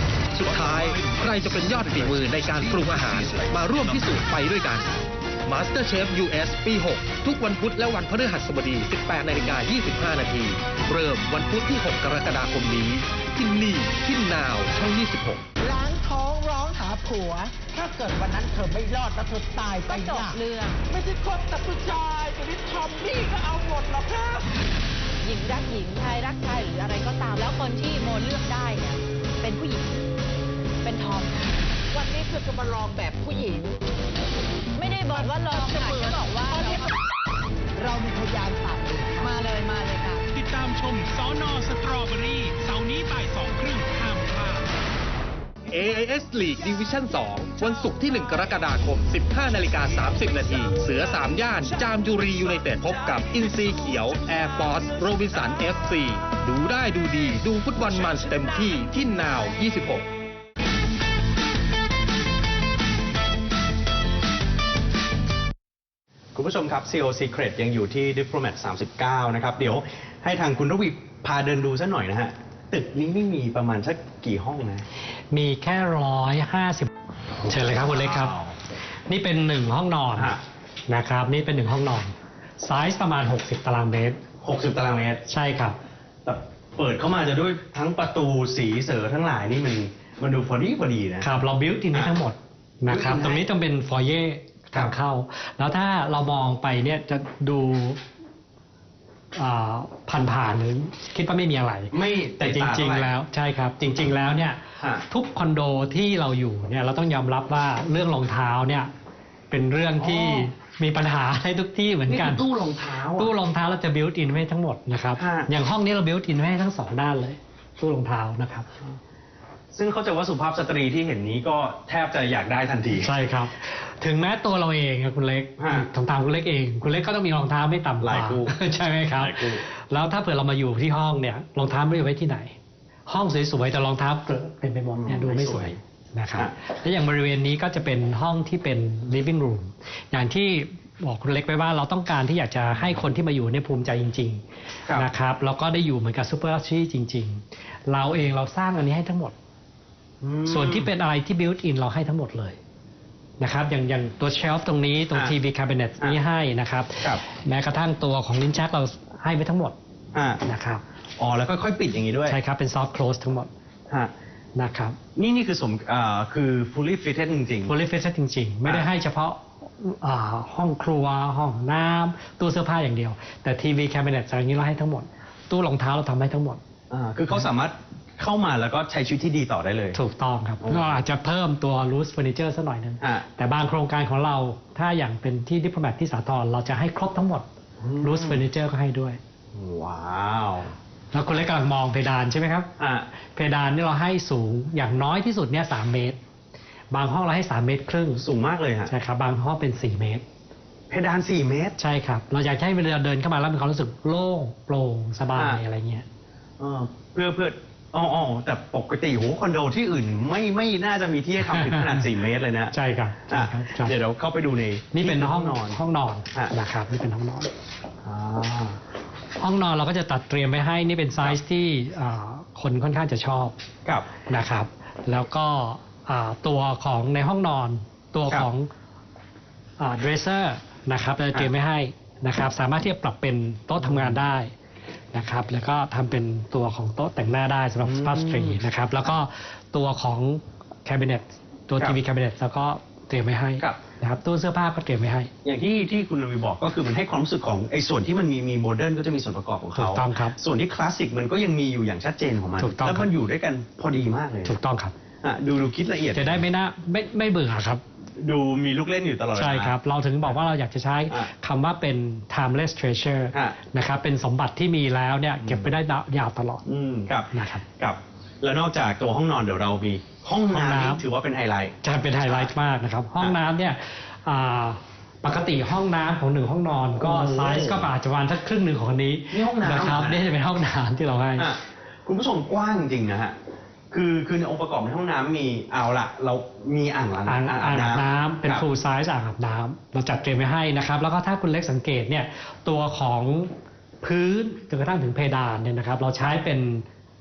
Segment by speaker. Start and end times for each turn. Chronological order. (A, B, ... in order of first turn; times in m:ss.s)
0:00.3-0:04.9 A
0:05.4-0:15.4 A
0:15.6-0:24.5 B
0:19.9-0:20.8 C
0:25.2-0:29.9 C
0:30.8-0:31.5 C
0:31.9-0:33.7 B
0:34.8-0:36.9 C
0:34.8-0:37.0 B
0:37.8-0:40.2 B
0:40.3-0:44.7 D
0:45.7-1:00.1 A
1:06.3-1:14.8 E
1:15.3-1:16.9 F
1:17.4-1:18.6 E
1:17.4-1:18.4 F
1:19.1-1:20.4 F
1:20.9-1:24.2 F
1:24.4-1:25.2 E
1:25.3-1:25.8 F
1:26.2-1:31.3 E
1:31.2-1:38.0 F
1:32.9-1:33.4 E
1:39.3-1:48.9 F
1:41.9-1:43.1 E
1:43.8-1:44.0 E
1:44.8-1:45.0 E
1:49.5-1:52.5 F
1:50.0-1:50.5 E
1:52.1-1:53.3 E
1:53.2-1:58.7 F
1:55.2-1:55.5 E
1:59.7-2:03.1 E
2:03.0-2:12.5 F
2:05.6-2:05.8 E
2:08.0-2:08.6 E
2:09.2-2:09.6 E
2:13.1-2:29.3 F
2:14.9-2:15.8 E
2:30.2-2:30.9 E
2:30.5-2:32.6 F
2:33.4-2:39.8 F
2:40.1-2:40.4 E
2:40.4-2:40.8 F
2:41.2-2:42.4 E
2:42.2-2:43.5 F
2:44.6-2:45.0 F
2:45.2-2:47.7 E
2:47.7-2:56.6 F
2:56.9-3:00.0 E
2:59.9-3:07.4 F
3:00.6-3:01.0 E
3:07.8-3:08.4 E
3:08.0-3:09.2 F
3:09.5-3:10.7 E
3:11.1-3:12.7 F
3:12.8-3:13.0 E
3:13.3-3:16.2 F
3:16.9-3:18.2 F
3:18.2-3:18.9 E
3:18.9-3:20.2 F
3:20.9-3:21.8 E
3:21.8-3:26.0 F
3:25.3-3:25.6 E
3:26.6-3:32.7 E
3:31.5-3:32.0 F
3:32.7-3:34.0 F
3:33.3-3:35.8 E
3:34.9-3:37.5 F
3:38.0-3:38.8 E
3:39.4-3:43.5 F
3:44.3-3:48.7 F
3:49.8-3:54.5 F
3:53.8-3:54.2 E
3:55.1-4:05.3 F
3:57.8-3:58.6 E
4:05.4-4:14.5 E
4:09.8-4:10.4 F
4:12.6-4:13.1 F
4:14.4-4:14.9 F
4:15.2-4:16.4 E
4:16.1-4:17.8 F
4:18.2-4:19.7 E
4:19.3-4:26.6 F
4:25.4-4:25.7 E
4:26.6-4:32.5 E
4:27.3-4:27.6 F
4:30.5-4:31.0 F
4:31.8-4:41.5 F
4:37.0-4:37.9 E
4:39.3-4:40.2 E
4:41.4-4:43.4 E
4:43.9-4:48.6 E
4:47.2-4:53.5 F
4:54.0-4:56.8 F